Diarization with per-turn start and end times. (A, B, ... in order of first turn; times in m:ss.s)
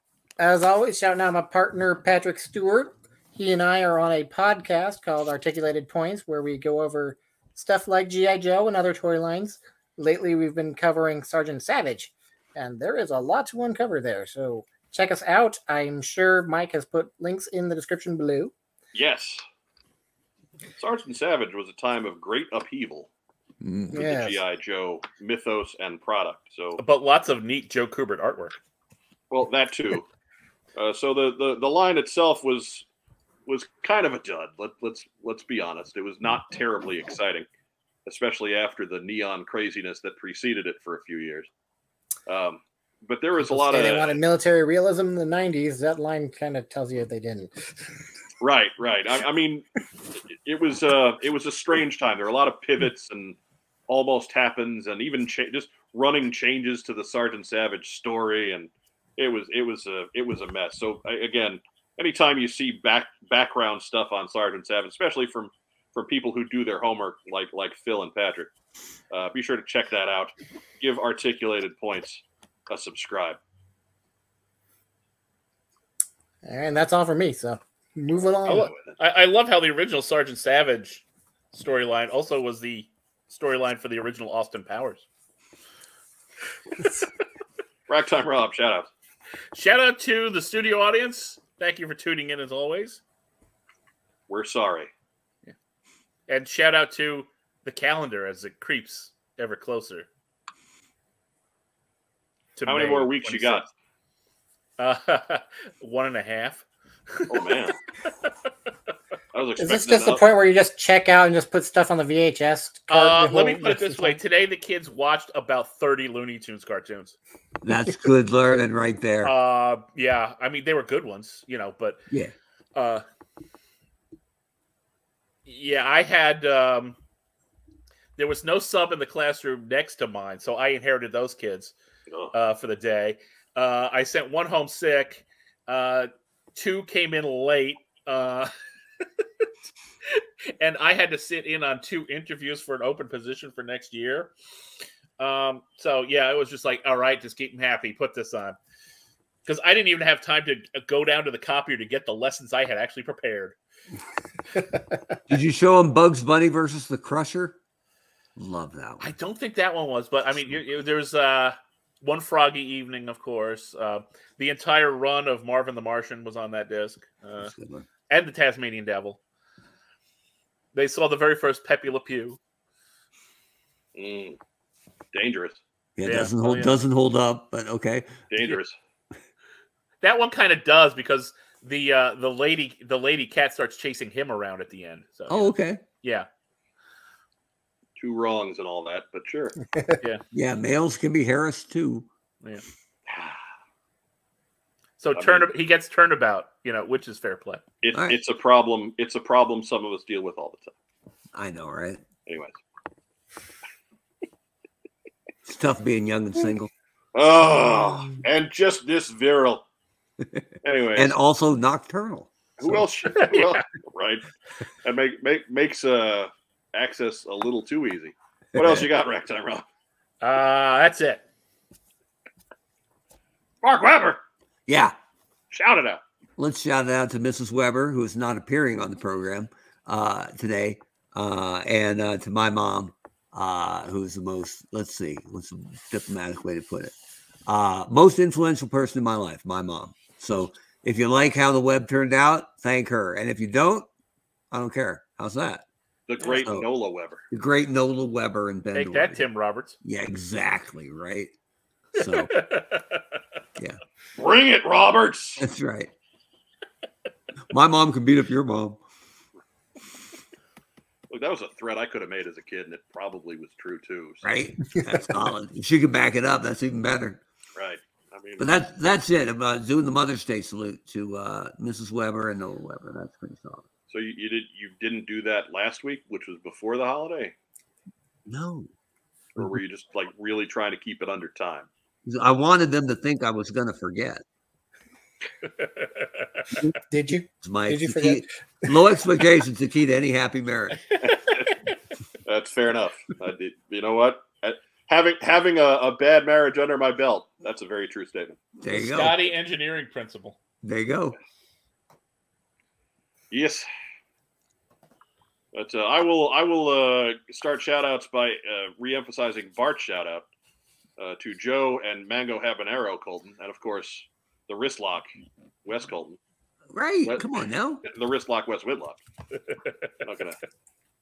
0:00.4-0:18.5 A
0:18.9-0:19.4 B
0:20.8-0:23.1 B
0:23.6-0:23.9 C
0:23.9-0:26.8 B
0:23.9-0:24.4 A
0:26.8-0:28.6 D
0:29.3-0:30.1 B
0:30.8-0:32.9 B
0:33.5-0:37.5 B
0:38.1-0:41.5 B
0:42.3-0:44.2 B
0:43.4-0:47.5 A
0:48.4-0:49.7 B
0:50.3-0:53.4 B
0:53.9-1:08.5 B
1:09.1-1:13.4 B
1:16.4-1:18.7 A
1:18.5-1:19.0 B
1:18.5-1:25.0 D
1:27.9-1:28.9 B
1:29.5-1:33.0 D
1:34.3-1:34.9 B
1:36.3-1:40.1 D
1:42.6-1:43.7 D
1:42.7-1:43.7 B
1:44.8-1:47.5 D
1:47.3-1:47.8 B
1:49.3-1:50.2 B
1:49.6-1:54.2 A
1:52.9-1:57.2 D
1:57.6-1:59.3 C
1:59.2-2:02.0 D
2:02.8-2:03.0 D
2:05.5-2:07.0 D
2:08.2-2:11.7 D
2:12.3-2:18.5 D
2:20.1-2:24.3 D
2:25.2-2:28.6 D
2:29.4-2:33.6 D
2:35.3-2:37.6 C
2:38.4-2:39.1 C
2:39.0-2:47.5 D
2:47.4-2:47.9 C
2:48.1-2:49.2 D
2:50.7-2:52.4 D
2:54.0-2:54.4 B
2:55.1-2:55.6 B
2:56.0-2:58.1 C
2:56.0-2:56.8 D
2:58.3-2:58.8 B
3:00.0-3:05.5 D
3:05.3-3:05.8 C
3:06.0-3:06.3 D
3:08.0-3:09.6 B
3:10.3-3:12.1 C
3:13.1-3:13.4 B
3:15.0-3:17.6 D
3:15.2-3:15.5 B
3:17.8-3:20.7 B
3:17.9-3:18.2 C
3:21.3-3:22.0 C
3:22.3-3:22.5 B
3:25.4-3:26.7 C
3:27.1-3:29.6 B
3:30.6-3:31.2 B
3:31.0-3:32.9 C
3:32.6-3:34.2 B
3:33.2-3:33.6 D
3:34.8-3:39.6 B
3:38.6-3:38.9 C
3:40.2-3:41.2 D
3:43.6-3:44.2 B
3:44.7-3:45.0 C
3:45.5-3:46.0 B
3:46.4-3:56.9 C
3:57.5-4:03.9 C
4:04.5-4:05.6 C
4:06.1-4:07.2 B
4:07.3-4:09.2 C
4:08.8-4:09.8 D
4:09.8-4:11.3 C
4:11.9-4:12.3 C
4:12.0-4:13.2 D
4:14.2-4:15.4 B
4:15.4-4:15.9 C
4:17.5-4:18.8 C
4:21.1-4:24.4 B
4:24.2-4:27.2 C
4:27.6-4:28.5 B
4:28.4-4:33.7 C
4:33.9-4:37.3 B
4:38.3-4:38.7 C
4:39.4-4:41.7 B
4:42.0-4:44.2 C
4:45.5-4:46.1 D
4:46.9-4:48.2 A
4:47.4-4:50.8 C
4:51.0-4:51.5 B
4:52.3-4:58.4 B
4:58.6-4:59.2 C
4:58.7-5:00.4 D
5:00.6-5:01.2 C
5:03.3-5:03.7 B
5:05.5-5:10.3 B
5:11.0-5:15.1 B
5:15.6-5:16.2 B
5:16.7-5:17.8 C
5:17.8-5:19.0 B
5:20.0-5:20.4 B